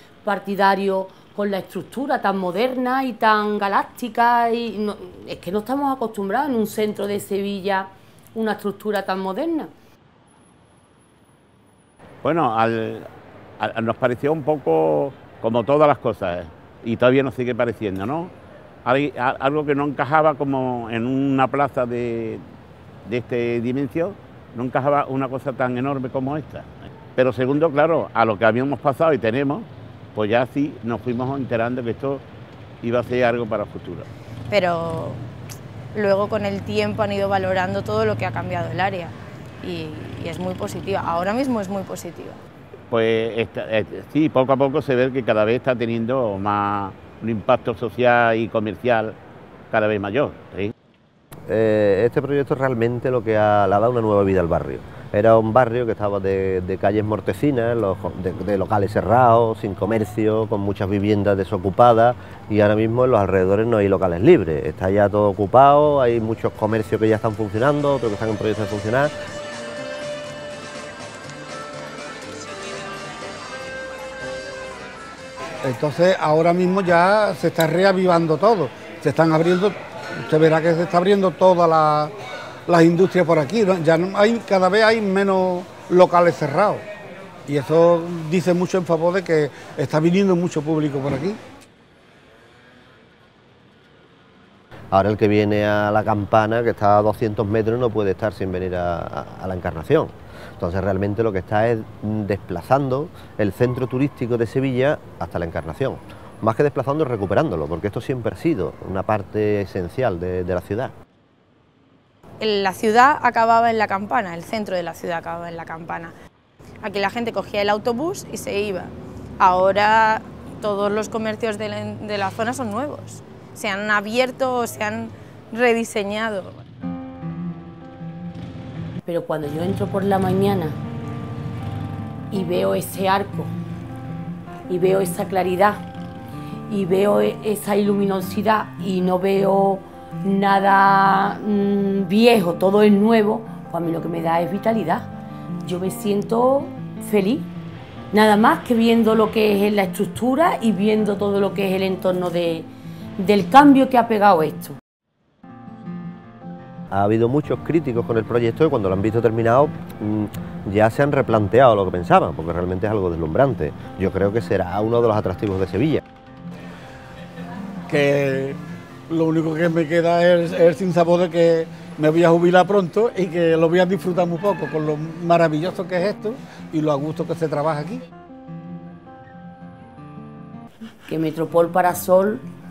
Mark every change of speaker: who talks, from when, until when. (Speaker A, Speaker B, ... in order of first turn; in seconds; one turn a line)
Speaker A: 0.2-9.7
Speaker B: 12.2-13.1
Speaker B: 13.6-18.3
Speaker B: 18.8-22.4
Speaker B: 23.0-32.2
Speaker B: 32.8-34.1
Speaker C: 34.5-35.2
Speaker C: 35.9-42.4
Speaker B: 42.9-49.1
Speaker B: 49.7-50.7
Speaker D: 51.5-69.1
Speaker E: 75.6-82.1
Speaker E: 82.7-86.8
Speaker E: 87.5-91.4
Speaker D: 94.9-110.9
Speaker C: 112.4-116.1
Speaker C: 116.8-126.6
Speaker A: 129.0-130.8
Speaker A: 132.3-133.5
Speaker A: 134.7-135.8
Speaker A: 136.7-145.1
Speaker A: 145.6-147.5
Speaker A: 148.1-154.8
Speaker D: 156.9-166.0
Speaker E: 167.9-178.0
Speaker A: 181.1-182.4